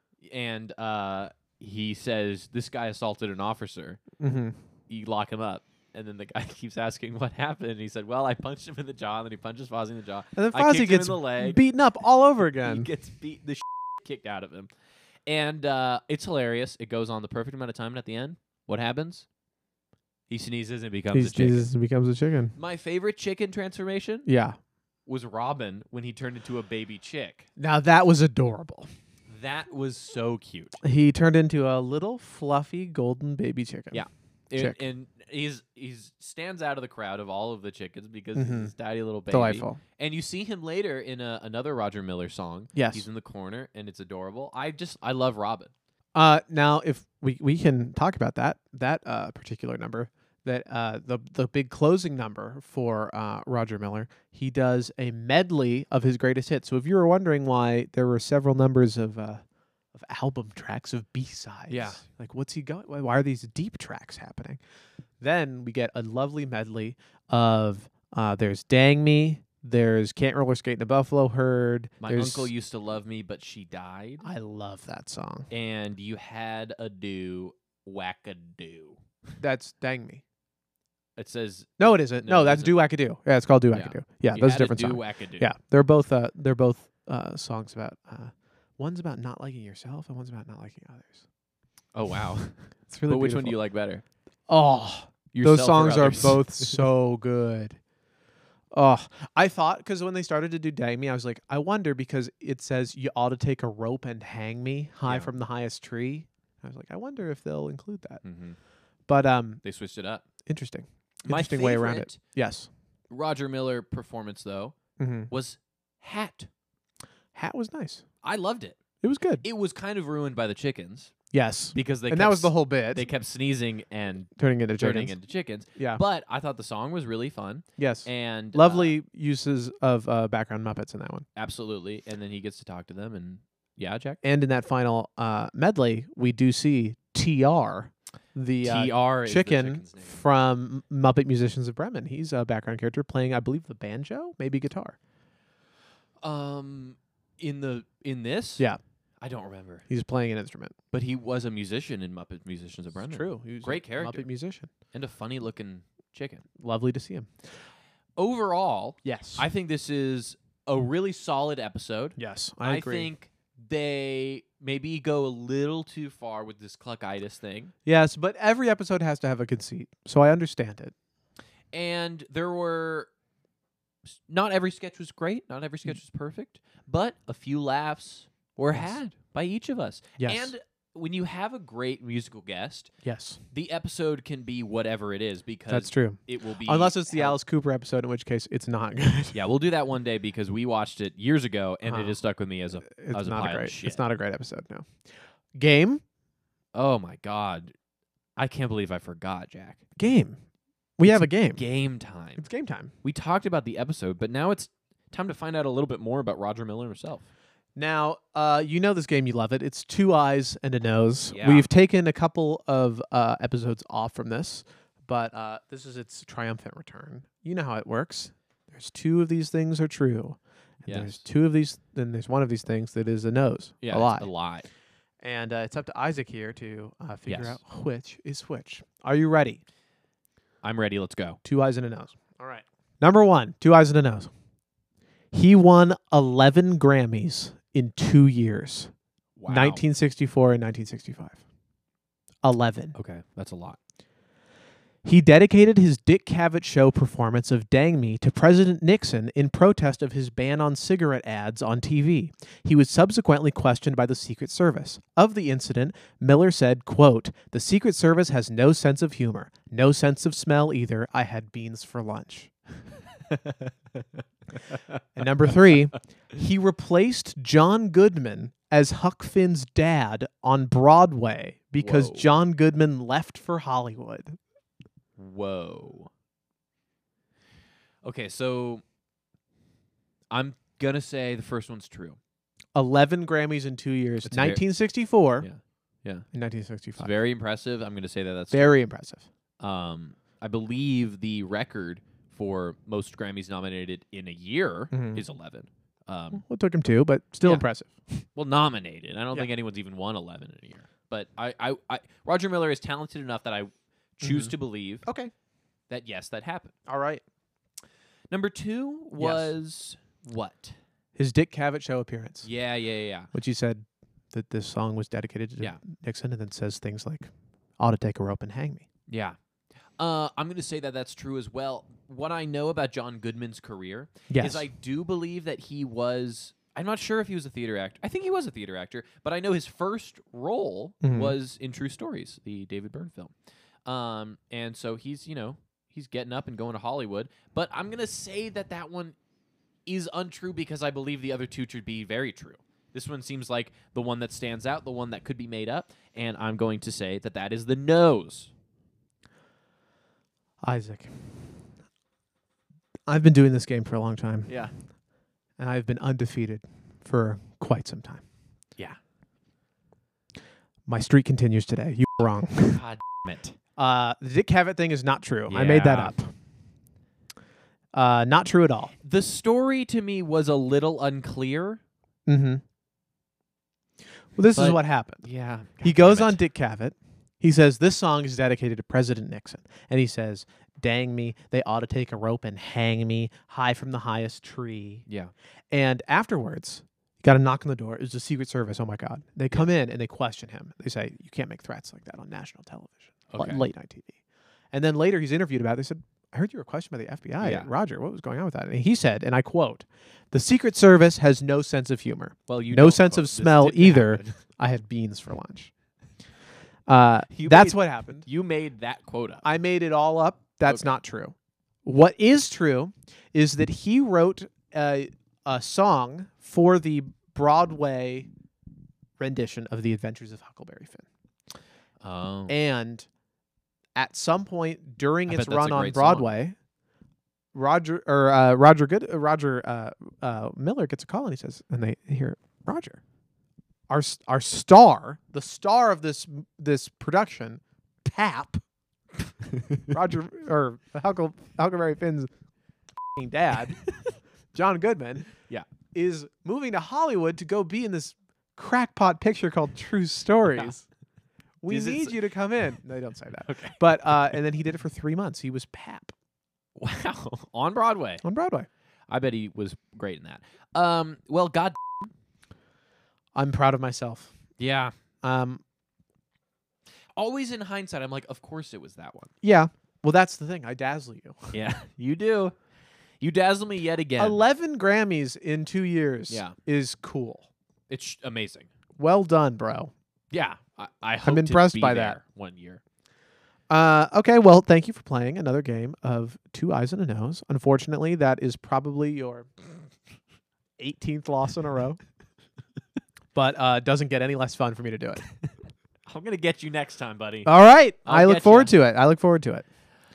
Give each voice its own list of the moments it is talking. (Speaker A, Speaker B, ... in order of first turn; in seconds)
Speaker A: 0.2-4.0, 4.9-11.6, 12.6-14.7, 15.3-19.3, 20.3-21.7, 22.6-24.3, 25.1-27.5, 29.3-30.8, 33.9-45.7, 61.7-62.0, 72.0-74.2, 75.5-79.0, 81.2-82.8, 83.7-85.5, 92.0-94.0, 95.3-96.8, 105.1-105.3, 108.2-108.6, 109.6-110.2, 111.2-112.2, 113.1-114.8, 115.3-116.5, 118.2-118.8, 119.4-121.2, 121.7-128.9, 131.3-134.2, 138.6-140.2, 146.2-148.7, 149.2-149.9, 150.9-154.3, 154.9-156.4, 158.2-167.7, 171.7-173.1, 174.1-182.9, 183.5-187.4, 189.3-194.0, 196.8-197.7, 198.4-199.8, 201.1-202.4, 203.0-207.3, 211.3-211.7, 220.8-221.2, 223.8-224.7, 227.2-227.6, 230.6-231.4, 239.4-239.8, 242.9-243.8, 263.3-264.0, 271.8-272.3, 275.2-276.1, 278.0-278.8, 280.3-282.2, 284.2-284.6, 285.4-286.3, 287.0-288.8, 289.6-296.4, 298.4-305.1, 305.9-306.7, 308.3-310.8, 312.4-313.3, 319.1-319.4, 320.0-339.2, 339.9-348.5, 354.5-354.7, 362.5-363.6, 365.5-366.1, 369.0-371.8, 374.5-376.4, 385.1-385.3, 393.3-393.6, 397.4-397.7, 402.5-404.4, 407.3-409.5, 410.6-411.0, 422.0-422.6, 425.3-426.3, 451.7-452.2, 453.4-453.8, 456.8-458.2, 459.1-462.1, 464.6-464.9, 467.1-469.3, 471.5-472.6, 473.2-474.4, 476.3-476.6, 477.9-478.7, 480.3-482.8, 496.1-497.5, 498.0-498.7
Speaker B: 4.2-4.6, 10.3-12.9, 21.1-22.6, 24.2-24.6, 27.6-28.9, 30.8-34.0, 34.5-34.8, 38.4-38.7, 39.3-39.8, 42.7-43.1, 46.1-64.6, 65.2-72.5, 74.2-75.5, 79.4-80.2, 81.8-91.2, 92.9-93.6, 94.5-97.8, 98.7-108.2, 109.1-109.6, 110.5-112.7, 115.0-115.3, 117.3-118.0, 119.0-119.5, 121.3-123.1, 124.4-125.2, 125.8-126.0, 127.8-131.2, 134.2-145.0, 149.9-150.8, 153.1-154.7, 156.6-157.3, 159.0-159.5, 162.2-163.1, 167.9-170.9, 180.2-180.5, 183.0-183.4, 185.7-189.4, 191.8-192.2, 192.8-195.0, 195.6-196.0, 200.0-200.4, 201.0-201.6, 202.4-202.9, 207.8-224.3, 225.2-229.6, 231.4-234.3, 235.3-238.9, 239.5-241.4, 242.4-242.9, 245.0-262.5, 265.1-274.4, 282.8-285.5, 286.3-287.1, 288.5-289.3, 294.9-295.2, 296.3-298.2, 304.2-305.3, 306.9-307.2, 309.2-309.5, 311.2-312.5, 313.3-318.9, 324.3-324.7, 331.0-331.4, 350.6-351.6, 353.1-354.6, 355.6-358.2, 360.9-362.8, 363.8-366.3, 367.9-368.9, 372.3-372.6, 374.4-375.2, 375.8-385.1, 385.7-394.2, 394.7-405.7, 406.9-408.3, 409.4-418.3, 419.2-421.1, 422.5-423.1, 424.0-426.6, 427.5-433.0, 433.9-438.6, 439.9-442.3, 443.2-443.8, 444.5-445.3, 445.9-450.9, 451.6-456.1, 458.2-458.7, 463.4-464.3, 465.2-465.6, 469.4-471.5, 474.2-477.5, 479.0-479.9, 481.2-482.2, 483.7-489.5, 490.8-492.0, 493.3-495.2, 497.4-499.6